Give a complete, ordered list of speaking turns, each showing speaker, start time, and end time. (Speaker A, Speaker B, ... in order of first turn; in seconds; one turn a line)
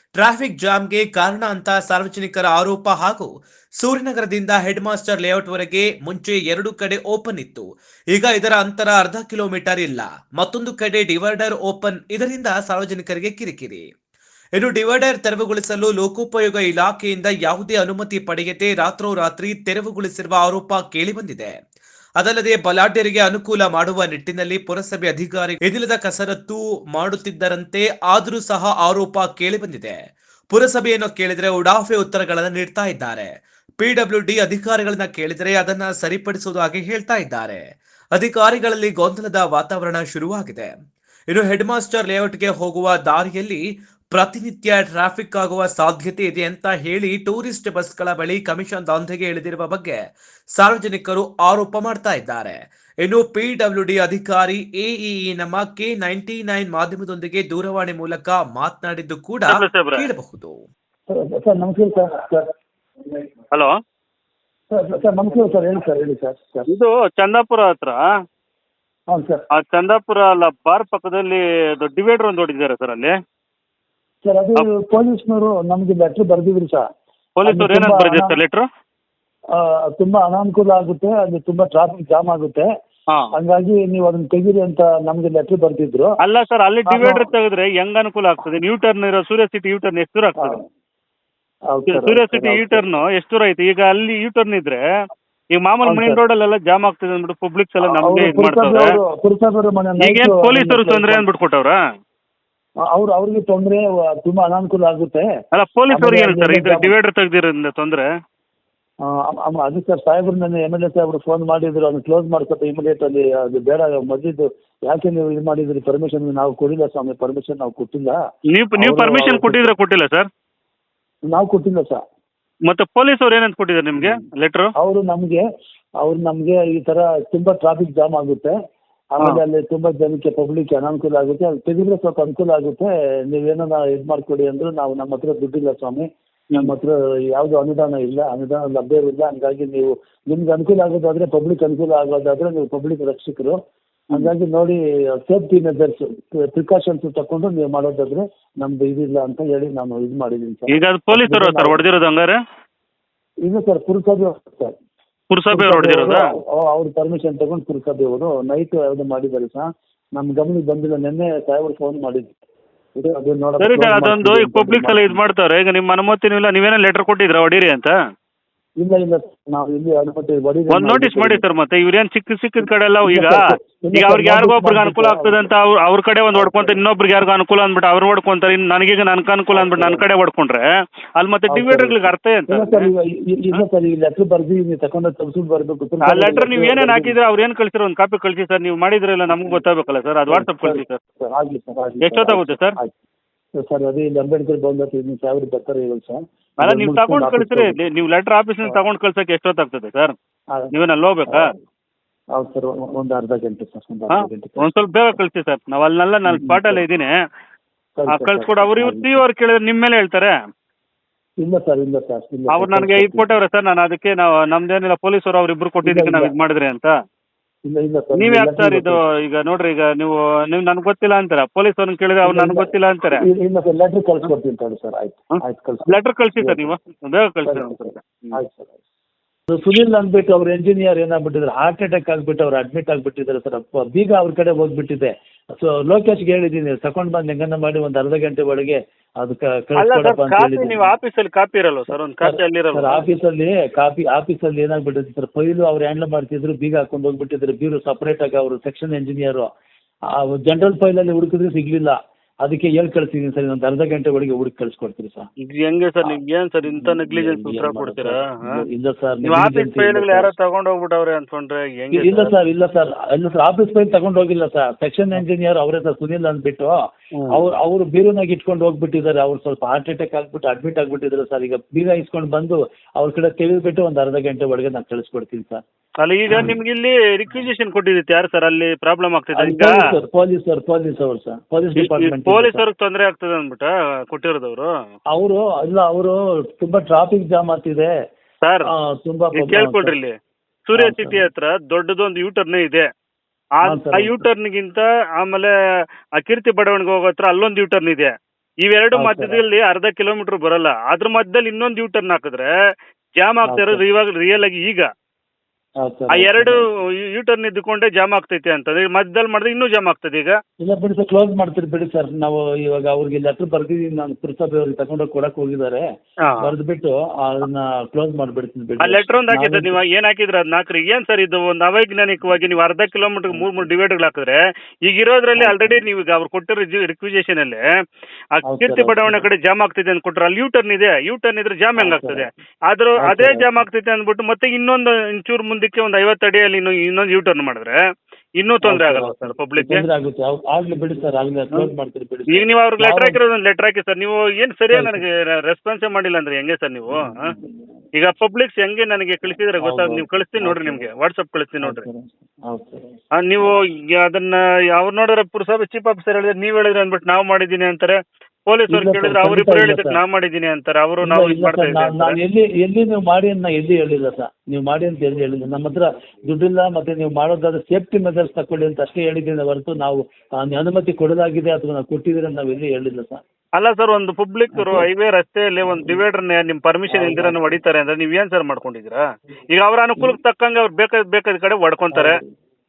Speaker A: 0.2-13.8
Speaker A: 14.6-21.5
Speaker A: 22.2-29.9
Speaker A: 30.5-37.6
Speaker A: 38.1-40.7
Speaker A: 41.3-43.6
Speaker A: 44.1-50.0
Speaker A: 50.6-60.6
Speaker B: 59.5-60.1
Speaker C: 61.1-62.5
Speaker B: 63.5-63.8
Speaker C: 64.7-66.7
Speaker B: 66.7-68.0
Speaker C: 69.1-69.4
Speaker B: 69.5-73.1
Speaker C: 74.2-76.8
Speaker B: 77.4-78.6
Speaker C: 77.4-78.3
Speaker C: 79.5-82.7
Speaker C: 83.3-86.1
Speaker B: 86.2-90.6
Speaker C: 86.9-87.3
Speaker C: 90.4-90.6
Speaker C: 91.7-92.8
Speaker B: 91.9-94.8
Speaker B: 95.5-98.9
Speaker C: 95.8-96.2
Speaker C: 97.8-101.2
Speaker B: 100.0-101.8
Speaker C: 102.9-105.3
Speaker B: 105.5-108.0
Speaker C: 105.9-106.9
Speaker C: 109.0-118.2
Speaker B: 118.5-120.3
Speaker C: 118.8-119.7
Speaker C: 121.3-122.0
Speaker B: 122.7-124.7
Speaker C: 124.0-124.2
Speaker C: 124.8-125.4
Speaker C: 126.0-128.5
Speaker C: 129.1-136.0
Speaker C: 136.6-143.6
Speaker C: 144.1-151.8
Speaker B: 150.7-152.3
Speaker C: 153.4-154.7
Speaker B: 155.3-156.2
Speaker C: 155.5-162.3
Speaker C: 162.9-165.2
Speaker B: 163.6-167.9
Speaker C: 168.8-171.4
Speaker B: 170.7-173.4
Speaker C: 173.0-175.4
Speaker B: 173.9-180.6
Speaker C: 176.3-176.8
Speaker C: 179.5-180.0
Speaker B: 181.2-182.9
Speaker C: 181.5-187.2
Speaker B: 186.0-191.0
Speaker C: 190.3-192.9
Speaker B: 192.0-192.8
Speaker C: 193.6-197.8
Speaker B: 196.6-200.1
Speaker B: 200.7-201.5
Speaker C: 201.3-201.5
Speaker C: 202.3-204.8
Speaker B: 204.1-207.1
Speaker C: 206.3-206.8
Speaker C: 208.0-209.2
Speaker B: 208.1-210.3
Speaker C: 211.4-213.3
Speaker B: 212.5-216.9
Speaker C: 215.8-216.3
Speaker C: 217.6-219.0
Speaker B: 218.2-223.2
Speaker C: 222.2-226.7
Speaker B: 225.9-228.4
Speaker C: 227.4-227.8
Speaker C: 228.3-228.8
Speaker C: 229.5-240.9
Speaker B: 239.8-243.0
Speaker C: 242.2-249.5
Speaker C: 250.1-255.3
Speaker B: 255.4-258.6
Speaker C: 256.0-260.3
Speaker B: 259.2-262.3
Speaker C: 261.9-266.7
Speaker B: 267.1-267.4
Speaker C: 267.3-275.6
Speaker B: 276.0-279.8
Speaker C: 276.3-276.5
Speaker C: 279.3-282.6
Speaker B: 281.8-284.7
Speaker C: 285.1-287.9
Speaker B: 288.4-288.7
Speaker C: 288.6-289.9
Speaker B: 289.4-290.1
Speaker B: 290.7-292.9
Speaker C: 290.7-291.2
Speaker B: 293.6-295.5
Speaker C: 293.6-294.3
Speaker B: 296.2-298.1
Speaker B: 298.6-302.5
Speaker C: 298.9-299.4
Speaker B: 303.2-304.9
Speaker C: 303.4-303.8
Speaker C: 305.8-306.6
Speaker B: 306.1-306.6
Speaker B: 307.1-310.4
Speaker C: 310.6-315.8
Speaker B: 316.2-316.5
Speaker C: 316.4-319.8
Speaker B: 318.8-327.6
Speaker C: 325.4-325.8
Speaker B: 328.3-337.8
Speaker C: 328.4-329.3
Speaker C: 331.8-332.3
Speaker C: 333.0-333.5
Speaker B: 338.4-339.8
Speaker C: 338.6-343.2
Speaker B: 342.3-347.3
Speaker C: 344.7-345.0
Speaker C: 346.9-347.6
Speaker B: 347.9-351.9
Speaker C: 349.6-350.9
Speaker C: 351.6-352.9
Speaker B: 353.2-362.1
Speaker C: 358.7-360.0
Speaker C: 361.0-373.2
Speaker B: 373.6-379.0
Speaker C: 374.5-374.9
Speaker C: 375.6-376.0
Speaker C: 376.9-377.6
Speaker B: 379.5-382.2
Speaker C: 381.9-382.3